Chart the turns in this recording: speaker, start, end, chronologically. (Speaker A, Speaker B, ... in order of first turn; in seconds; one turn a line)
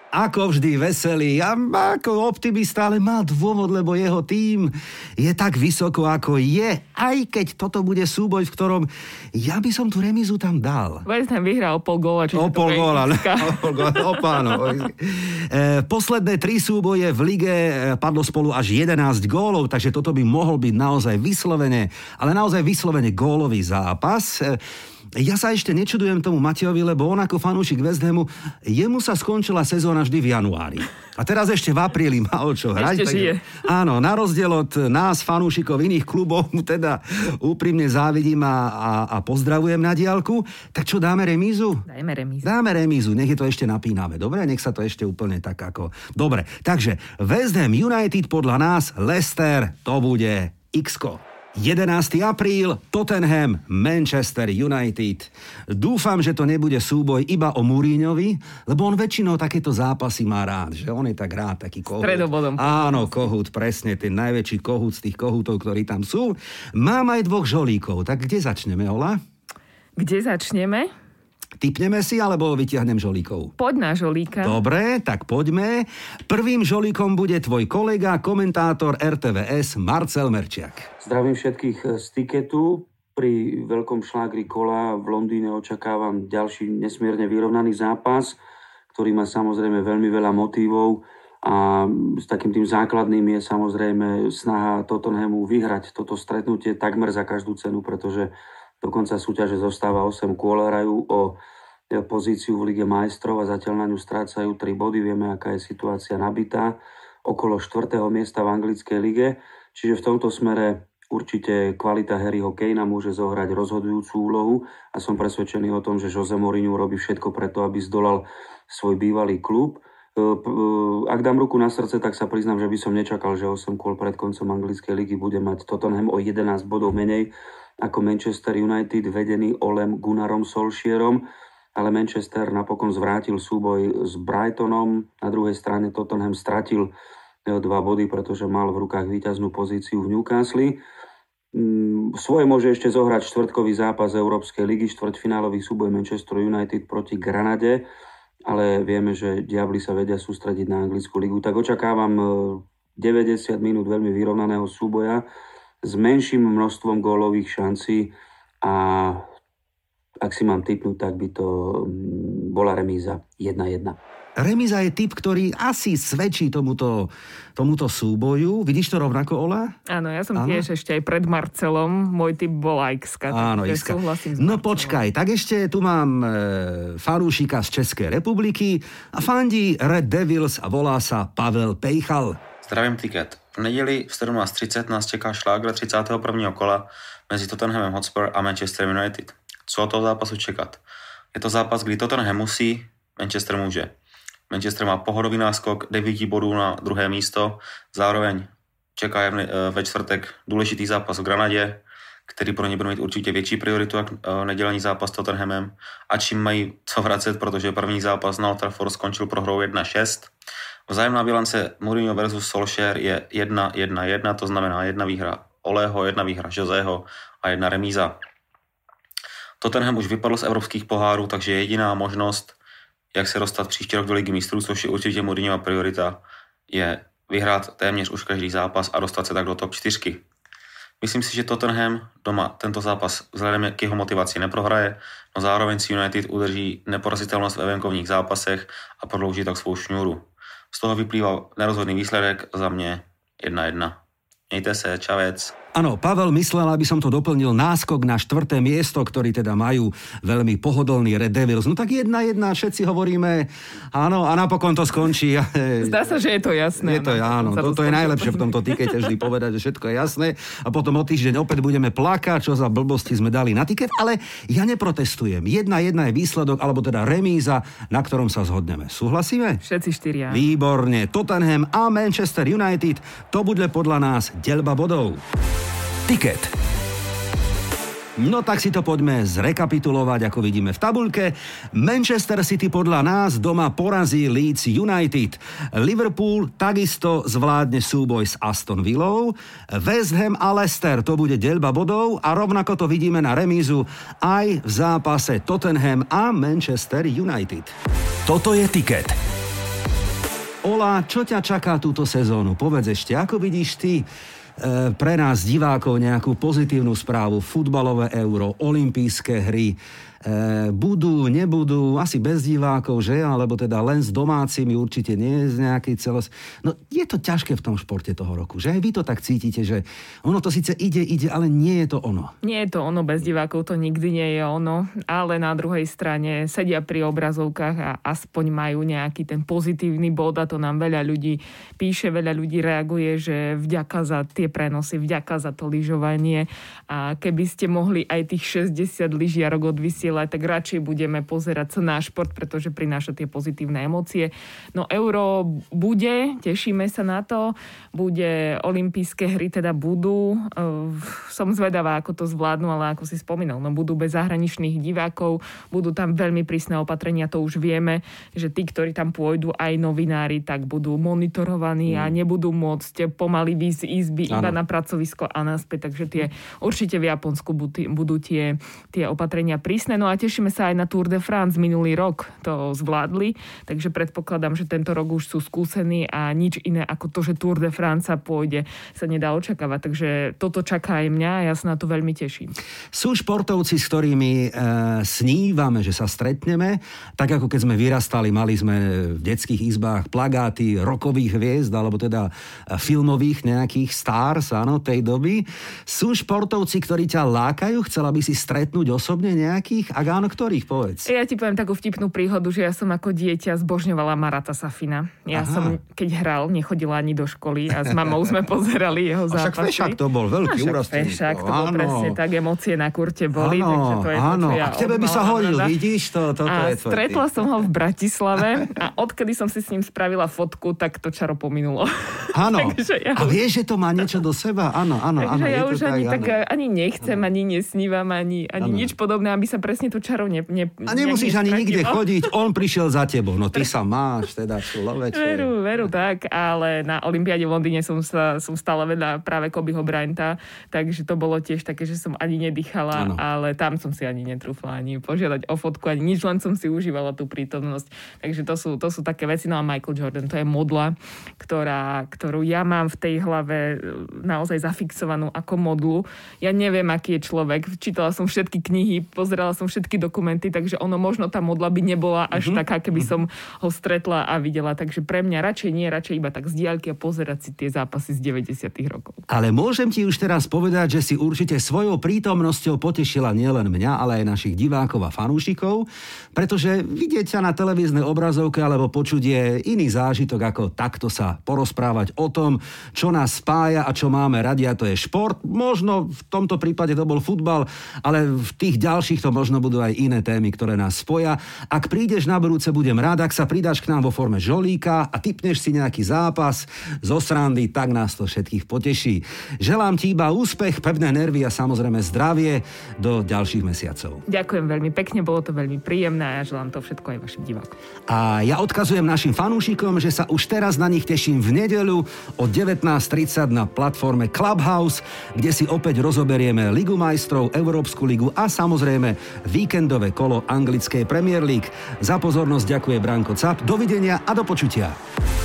Speaker A: 0.1-11.0
Speaker B: 11.1-14.6
Speaker A: 12.3-24.6
Speaker A: 25.1-41.8
Speaker B: 32.7-33.5
Speaker B: 41.9-42.5
Speaker A: 42.4-69.2
Speaker B: 62.0-63.3
Speaker B: 70.0-70.9
Speaker A: 71.6-73.5
Speaker B: 73.6-74.6
Speaker A: 74.4-80.9
Speaker C: 81.0-88.4
Speaker C: 88.9-101.4
Speaker C: 101.9-131.2
Speaker C: 131.8-136.9
Speaker C: 137.5-140.8
Speaker C: 141.5-147.8
Speaker C: 148.5-155.2
Speaker C: 155.8-159.2
Speaker C: 160.2-164.0
Speaker A: 164.4-169.7
Speaker B: 169.9-175.0
Speaker A: 170.3-170.6
Speaker A: 173.3-182.4
Speaker D: 182.6-190.8
Speaker D: 191.3-193.9
Speaker D: 194.5-210.3
Speaker D: 210.9-218.2
Speaker D: 219.6-222.6
Speaker D: 223.1-230.2
Speaker D: 231.0-243.9
Speaker D: 244.5-245.5
Speaker A: 245.7-256.0
Speaker B: 255.8-259.0
Speaker A: 256.8-269.6
Speaker B: 269.6-270.4
Speaker A: 270.3-275.2
Speaker A: 276.1-276.5
Speaker A: 278.2-297.7
Speaker A: 298.2-299.2
Speaker A: 300.6-304.1
Speaker A: 304.6-322.3
Speaker B: 322.4-382.6
Speaker A: 361.9-362.1
Speaker A: 364.3-364.6
Speaker A: 382.9-401.1
Speaker B: 401.1-410.0
Speaker A: 405.3-405.8
Speaker A: 409.3-412.2
Speaker B: 410.5-415.7
Speaker A: 413.3-417.2
Speaker B: 416.4-423.4
Speaker A: 422.3-426.3
Speaker B: 425.2-432.3
Speaker A: 428.6-428.9
Speaker A: 430.9-435.5
Speaker B: 435.1-469.2
Speaker A: 442.9-443.2
Speaker A: 462.3-463.1
Speaker A: 469.3-504.2
Speaker B: 504.3-507.7
Speaker A: 508.1-525.0